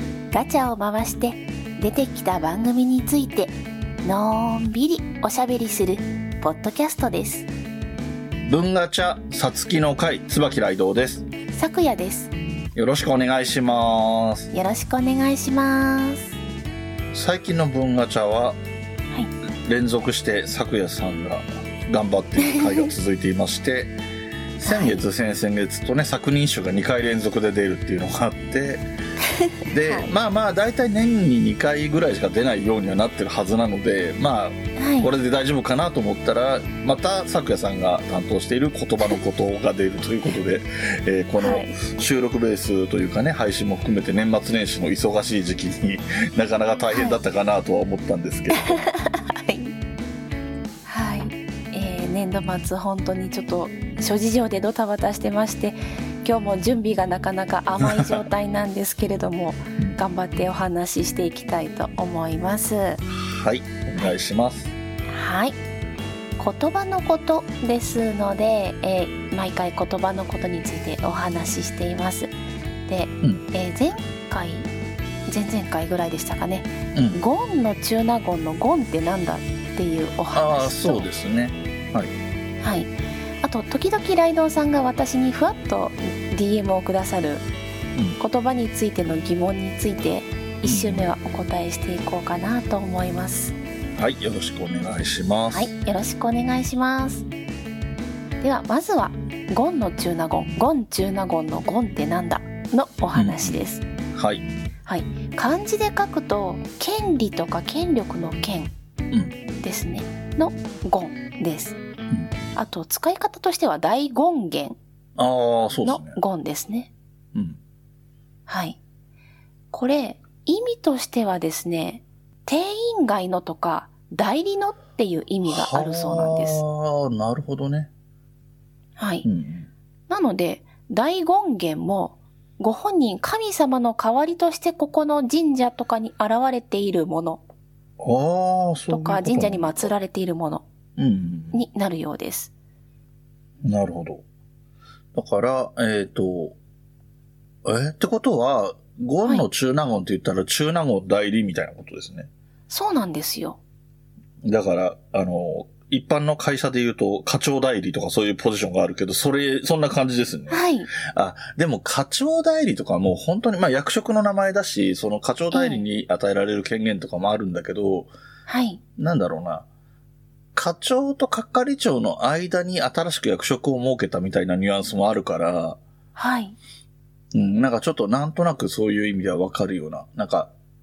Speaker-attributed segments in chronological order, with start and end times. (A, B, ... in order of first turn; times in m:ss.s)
0:00.3-0:03.5 A
0:04.0-0:07.5 A
0:08.5-0:11.3 B
0:11.5-0:12.3 A
0:12.8-0:14.5 B
0:14.5-0:16.4 A
0:17.1-0:18.6 B
0:19.6-0:23.9 B
0:22.4-0:22.9 A
0:24.6-0:28.8 B
0:24.6-0:25.0 A
0:29.2-0:30.1 A
0:29.6-0:48.8 B
0:34.8-0:35.1 A
0:41.4-0:41.7 A
0:46.9-0:47.2 A
0:48.5-0:49.7 A
0:50.9-1:03.0 A
0:57.8-0:58.2 B
1:03.1-1:04.7 B
1:05.1-1:05.6 A
1:06.4-1:12.3 A
1:12.9-1:14.7 A
1:15.3-1:21.1 A
1:16.9-1:17.2 B
1:20.3-1:22.1 B
1:22.6-1:27.5 A
1:28.2-1:33.6 A
1:30.6-1:31.1 B
1:34.0-1:35.7 B
1:35.5-1:37.3 A
1:38.4-1:43.8 A
1:43.1-1:44.5 B
1:44.9-1:48.7 A
1:49.1-1:49.4 B
1:49.6-1:51.8 A
1:52.5-1:54.8 A
1:55.2-1:56.2 B
1:55.8-1:56.9 A
1:58.5-1:58.8 A
1:59.7-2:06.6 A
2:05.5-2:07.9 B
2:09.0-2:09.3 A
2:09.2-2:09.7 B
2:10.1-2:17.4 A
2:18.0-2:19.9 B
2:18.9-2:20.6 A
2:21.0-2:21.6 B
2:21.5-2:22.5 A
2:23.6-2:24.2 B
2:25.2-2:26.6 B
2:27.6-2:32.3 B
2:32.7-2:33.6 A
2:34.4-2:48.1 B
2:40.5-2:40.9 A
2:45.5-2:45.8 A
2:48.5-2:48.8 A
2:49.0-2:49.7 B
2:50.6-2:55.8 B
2:56.2-2:56.6 A
2:57.3-3:00.5 B